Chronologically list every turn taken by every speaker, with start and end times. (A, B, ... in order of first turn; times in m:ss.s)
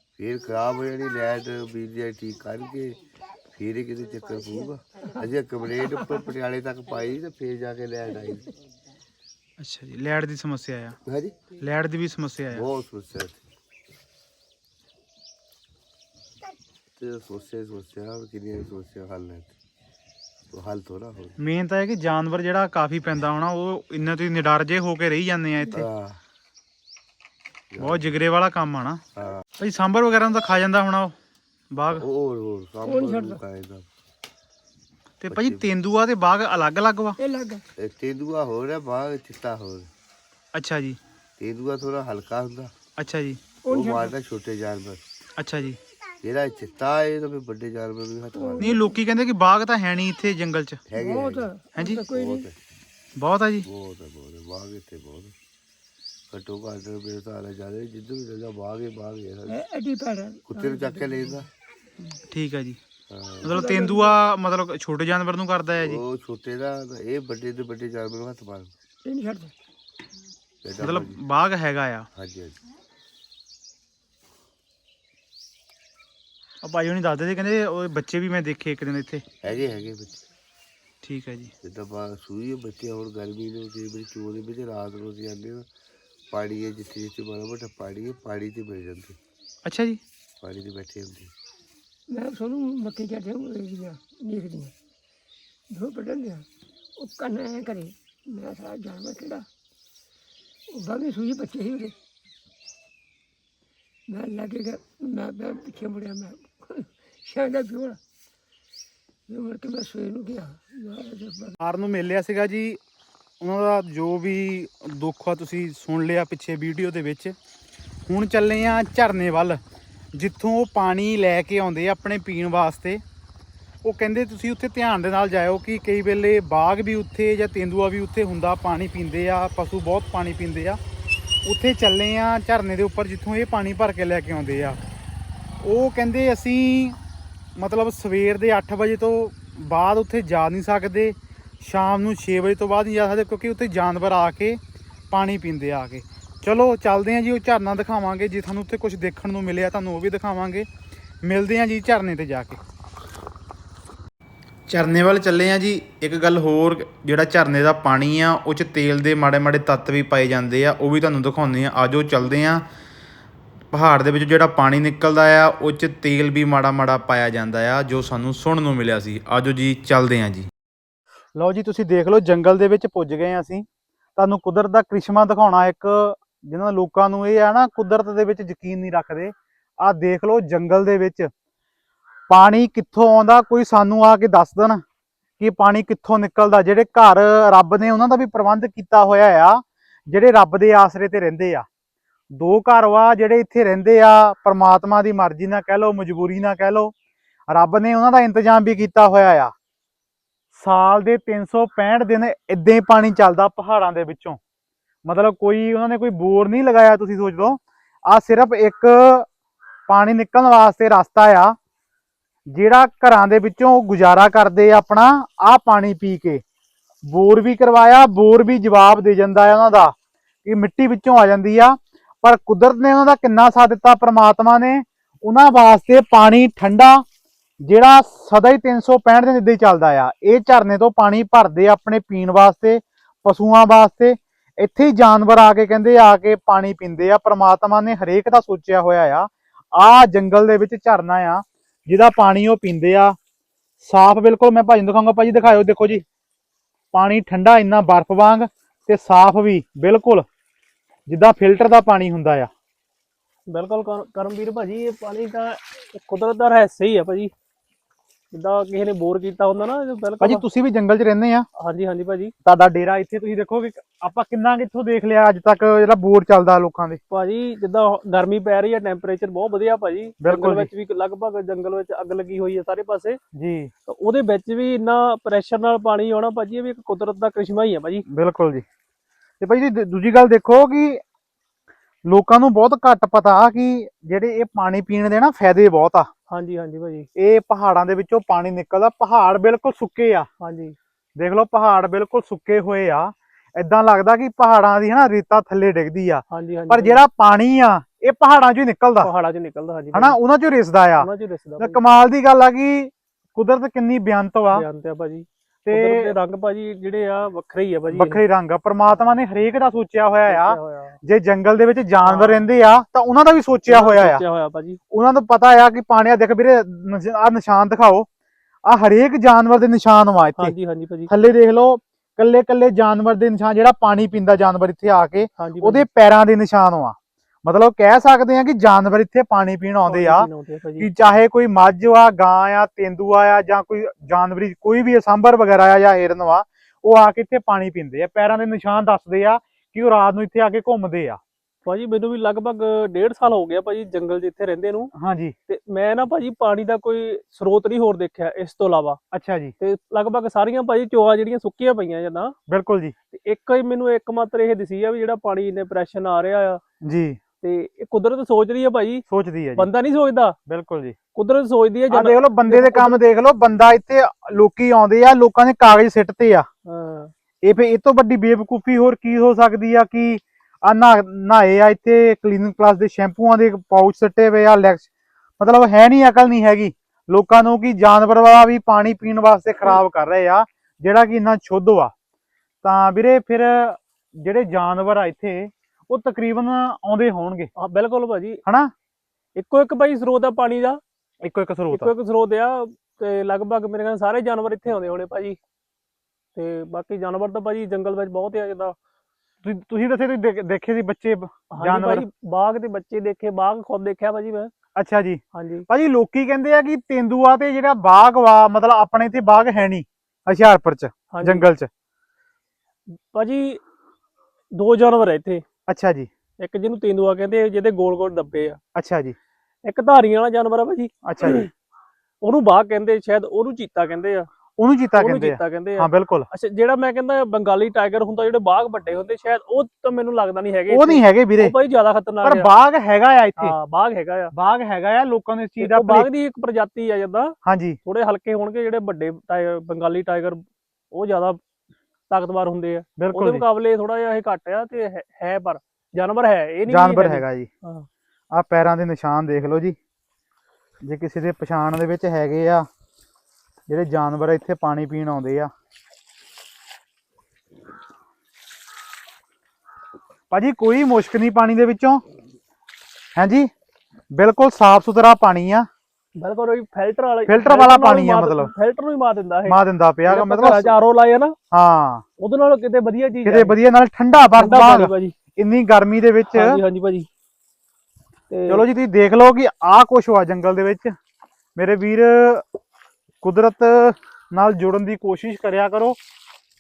0:00.2-0:03.0 A
0:03.5-0:08.5 A
0:05.9-0:06.3 B
0:09.6-0:11.0 C
0:11.0-0:11.5 A
0:11.6-0:12.7 C
0:12.5-0:13.4 A
0:17.0-0:19.6 A
0:20.5-0:21.4 A
0:21.4-0:25.9 C
0:25.7-0:26.2 A
0:27.7-0:28.1 A
0:27.8-0:29.0 C
0:29.2-0:29.4 A
0:29.6-0:31.2 C
0:31.7-0:32.0 C
0:31.9-0:33.9 A
0:32.9-0:33.4 B
0:35.2-0:37.2 C
0:35.3-0:35.7 A
0:37.2-0:37.6 B
0:37.8-0:39.9 A
0:40.5-0:41.0 C
0:41.4-0:42.7 A
0:43.0-0:43.4 C
0:43.6-0:44.1 B
0:43.7-0:45.0 A
0:45.4-0:45.8 C
0:46.2-0:48.8 A
0:48.4-0:49.0 B
0:48.6-0:50.8 C
0:50.9-0:51.5 A
0:51.0-0:52.5 B
0:51.8-0:52.0 C
0:52.1-0:52.6 A
0:53.2-0:53.7 C
0:53.6-0:55.3 A
0:56.3-0:59.6 A
0:59.5-1:01.4 B
1:00.5-1:01.5 A
1:02.3-1:02.8 C
1:03.1-1:03.7 A
1:03.4-1:06.0 C
1:03.5-1:04.2 B
1:05.8-1:08.7 A
1:09.0-1:09.5 B
1:10.6-1:11.2 A
1:10.8-1:12.1 C
1:12.1-1:12.6 A
1:16.6-1:19.2 C
1:19.4-1:20.2 A
1:21.0-1:21.5 C
1:21.6-1:25.7 A
1:26.3-1:29.2 A
1:29.6-1:30.0 C
1:30.4-1:31.3 A
1:32.1-1:34.7 B
1:35.7-1:39.5 B
1:40.7-1:42.0 B
1:44.1-1:48.0 B
1:49.3-1:51.6 B
1:51.6-1:52.8 C
1:53.4-1:57.4 C
1:58.1-1:59.6 C
2:00.1-2:03.0 C
2:03.8-2:10.8 C
2:11.4-2:14.8 C
2:15.6-2:17.0 C
2:17.6-2:24.6 C
2:25.1-2:30.7 C
2:31.2-2:32.6 C
2:34.7-2:42.6 C
2:43.7-2:50.5 C
2:51.4-3:01.3 C
3:02.3-3:04.8 C
3:05.4-3:11.7 C
3:12.3-3:16.9 C
3:17.5-3:19.5 C
3:20.5-3:24.4 C
3:25.0-3:29.3 C
3:29.9-3:31.6 C
3:32.5-3:36.4 C
3:37.0-3:39.9 C
3:40.4-3:47.0 C
3:47.6-4:03.2 C
4:03.8-4:06.0 C
4:06.9-4:10.3 C
4:11.1-4:12.5 C
4:13.5-4:17.3 D
4:18.3-4:20.4 D
4:20.2-4:21.5 C
4:21.6-4:22.3 D
4:22.4-4:27.0 C
4:27.1-4:33.2 D
4:30.2-4:30.7 C
4:33.4-4:33.7 C
4:33.9-4:38.0 D
4:38.1-4:38.6 C
4:39.4-4:41.0 C
4:42.1-4:46.1 C
4:46.3-4:47.1 D
4:47.2-4:50.3 C
4:50.4-4:50.8 D
4:51.2-4:59.1 C
4:56.3-4:57.0 D
4:59.0-5:00.2 D
4:59.9-5:01.1 C
5:01.0-5:01.8 D
5:01.6-5:04.6 C
5:04.5-5:08.2 D
5:05.7-5:06.1 C
5:07.9-5:14.2 C
5:10.3-5:11.0 D
5:12.0-5:12.4 D
5:13.7-5:14.8 D
5:14.9-5:18.1 C
5:18.7-5:20.6 C
5:20.4-5:21.1 D
5:21.1-5:30.3 C
5:25.4-5:25.8 D
5:29.9-5:30.9 D
5:30.8-5:41.2 C
5:41.7-5:44.9 D
5:45.0-5:45.4 C
5:45.5-5:49.0 D
5:49.1-5:49.5 C
5:49.6-5:52.4 D
5:52.5-5:53.0 C
5:53.1-5:56.6 D
5:56.8-5:57.2 C
5:57.4-5:59.1 D
5:59.1-5:59.7 C
5:59.6-6:00.4 D
6:00.5-6:01.0 C
6:01.2-6:03.0 D
6:01.9-6:06.5 C
6:06.7-6:07.1 D
6:07.4-6:14.9 C
6:15.4-6:21.9 C
6:22.6-6:27.5 C
6:27.6-6:28.4 D
6:28.4-6:28.7 C
6:29.4-6:30.8 D
6:31.2-6:31.9 C
6:31.7-6:35.4 D
6:36.4-6:38.8 D
6:39.4-6:42.1 C
6:41.5-6:44.5 D
6:44.8-6:51.7 C
6:45.3-6:45.7 D
6:51.1-6:51.4 D
6:53.0-6:53.6 D
6:54.5-6:55.4 D
6:55.7-6:56.1 C
6:56.4-6:58.6 D
6:58.8-6:59.2 C
6:59.6-7:01.5 D
7:01.1-7:01.5 C
7:02.2-7:04.3 D
7:04.6-7:06.3 C
7:05.0-7:12.5 D
7:10.7-7:11.5 C
7:12.2-7:13.6 C
7:13.4-7:14.3 D
7:14.3-7:16.1 C
7:15.6-7:21.4 D
7:17.4-7:17.8 C
7:22.1-7:27.9 D
7:23.0-7:23.4 C
7:26.7-7:27.5 C
7:28.3-7:29.8 C
7:30.8-7:32.7 C
7:33.7-7:35.5 C
7:40.3-7:42.0 C
7:43.2-7:43.5 C
7:44.1-7:45.7 C
7:46.2-7:51.4 D
7:47.3-7:48.5 C
7:49.5-7:50.7 C
7:51.5-7:52.0 C
7:52.2-7:53.6 D
7:53.2-7:56.6 C
7:54.4-7:55.2 D
7:56.3-7:57.1 D
7:58.3-7:58.6 D
7:58.5-8:01.0 C
8:01.6-8:02.4 C
8:03.2-8:06.0 C